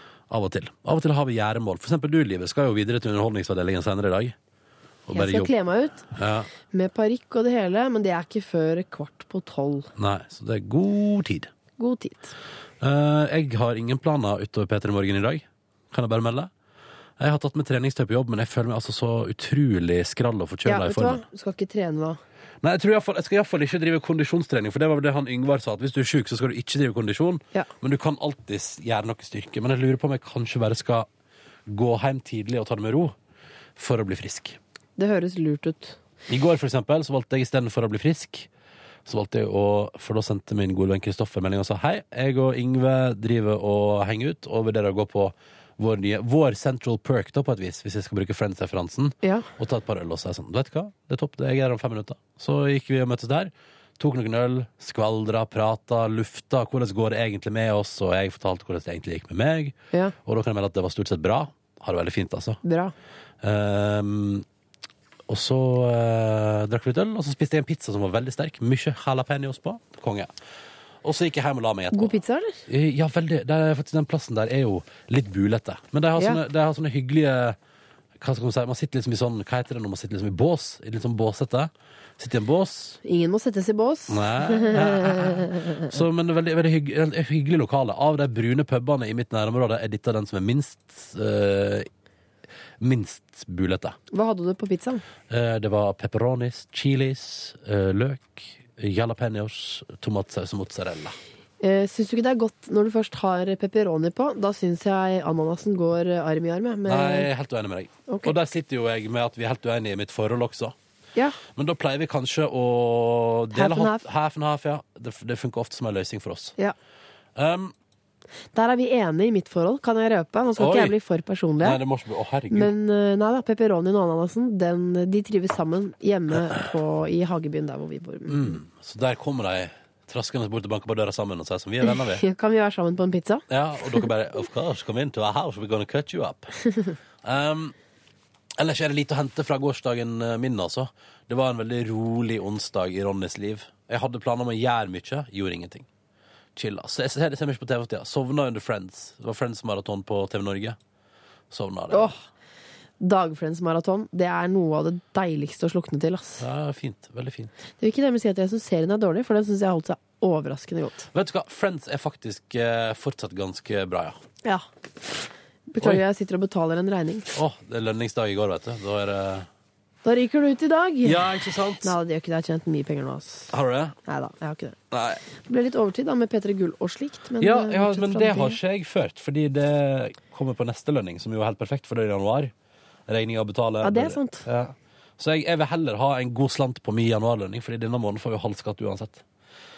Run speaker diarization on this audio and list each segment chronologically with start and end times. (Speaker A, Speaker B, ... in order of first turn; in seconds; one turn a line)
Speaker A: 0.3-4.3
Speaker A: 5.1-5.5
Speaker B: 5.1-6.0
Speaker A: 6.1-6.5
Speaker B: 6.7-9.9
Speaker A: 10.0-11.5
Speaker B: 11.8-12.3
Speaker A: 12.8-16.5
Speaker A: 17.2-21.2
Speaker B: 20.6-22.2
Speaker A: 22.6-31.1
Speaker A: 31.7-33.1
Speaker A: 33.8-34.6
Speaker B: 35.0-36.0
Speaker A: 36.3-38.5
Speaker A: 39.0-59.7
Speaker A: 60.2-62.6
Speaker B: 62.6-62.9
Speaker A: 63.4-64.4
Speaker A: 65.3-70.3
Speaker A: 71.0-72.2
Speaker B: 71.9-72.5
Speaker A: 72.7-77.5
Speaker A: 78.2-83.0
Speaker B: 83.0-86.0
Speaker A: 84.1-91.9
Speaker A: 92.8-94.0
Speaker B: 94.1-95.0
Speaker A: 95.3-101.1
Speaker B: 101.6-107.3
Speaker A: 106.9-110.7
Speaker B: 108.1-108.3
Speaker A: 111.5-116.5
Speaker B: 113.5-114.0
Speaker A: 117.4-117.7
Speaker B: 118.5-121.8
Speaker A: 120.6-120.9
Speaker A: 121.6-122.7
Speaker B: 122.5-128.6
Speaker A: 128.3-132.2
Speaker B: 131.8-133.4
Speaker A: 133.5-136.5
Speaker A: 137.2-137.7
Speaker A: 138.6-145.9
Speaker A: 146.6-150.8
Speaker A: 151.5-152.1
Speaker B: 151.9-152.2
Speaker B: 153.0-156.4
Speaker A: 156.4-157.5
Speaker B: 157.8-161.1
Speaker A: 161.1-164.2
Speaker B: 164.4-167.3
Speaker A: 167.3-169.5
Speaker B: 170.0-171.2
Speaker A: 171.0-171.9
Speaker B: 171.8-173.5
Speaker A: 173.5-173.9
Speaker B: 174.1-174.8
Speaker A: 174.9-175.2
Speaker B: 175.5-178.6
Speaker A: 177.4-182.5
Speaker A: 183.1-189.2
Speaker B: 183.8-184.4